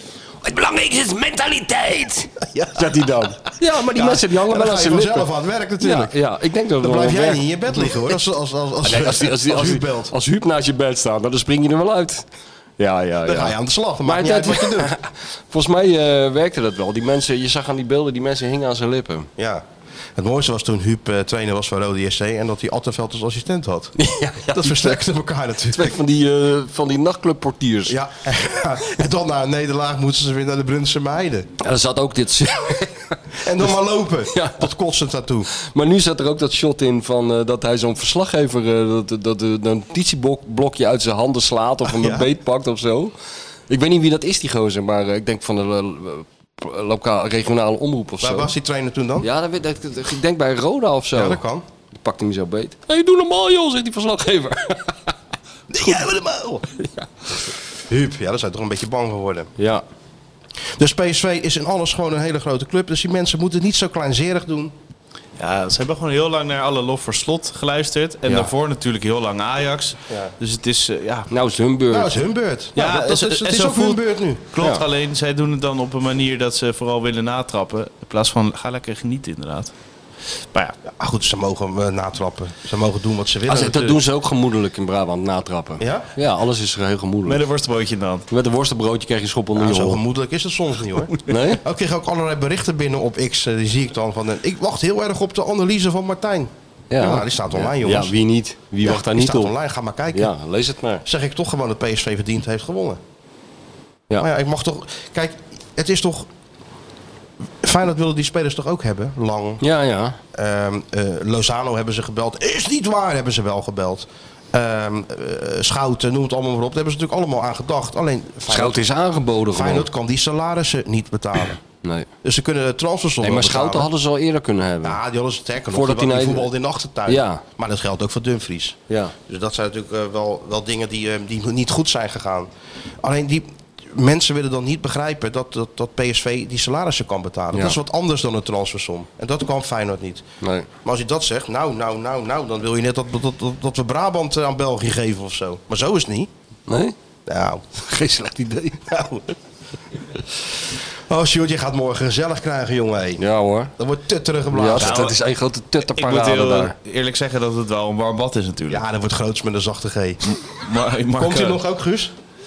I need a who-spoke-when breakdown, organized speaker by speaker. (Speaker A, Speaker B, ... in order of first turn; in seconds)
Speaker A: 0.4-5.3, 5.8-7.9, 8.8-12.3, 12.8-19.3, 24.0-25.0, 25.7-28.0, 31.6-33.2, 34.3-34.7, 35.6-43.1, 43.7-48.5, 49.2-51.4, 51.9-55.0, 59.6-59.8, 71.3-72.1, 83.5-87.4, 88.3-90.0, 91.3-91.6, 96.9-99.5, 100.1-101.0, 109.6-110.2, 118.5-119.9, 121.8-122.1, 123.2-125.0, 125.7-126.5, 127.1-127.4, 128.9-129.1, 140.4-140.7, 146.7-146.9, 147.8-148.8, 153.2-153.7, 154.5-156.8
Speaker B: 2.5-2.9, 3.6-6.2, 6.8-10.1, 13.2-14.9, 19.4-19.6, 20.2-23.9, 24.5-26.0, 27.9-31.5, 33.4-35.5, 41.9-42.3, 48.2-49.3, 51.1-51.6, 55.7-56.7, 57.9-59.5, 60.8-64.7, 71.9-74.4, 80.8-84.0, 85.8-86.1, 89.6-98.1, 98.8-100.3, 101.0-103.0, 104.2-106.3, 107.6-109.6, 110.3-118.8, 119.5-121.6, 122.2-123.9, 124.8-132.5, 133.0-140.2, 140.8-146.3, 147.3-147.6, 148.9-149.3, 151.1-153.2, 153.8-155.0, 158.7-160.2, 161.2-162.1
Speaker C: 65.4-71.3, 72.8-79.7, 87.3-88.3, 154.8-155.2, 155.9-158.8, 160.3-161.6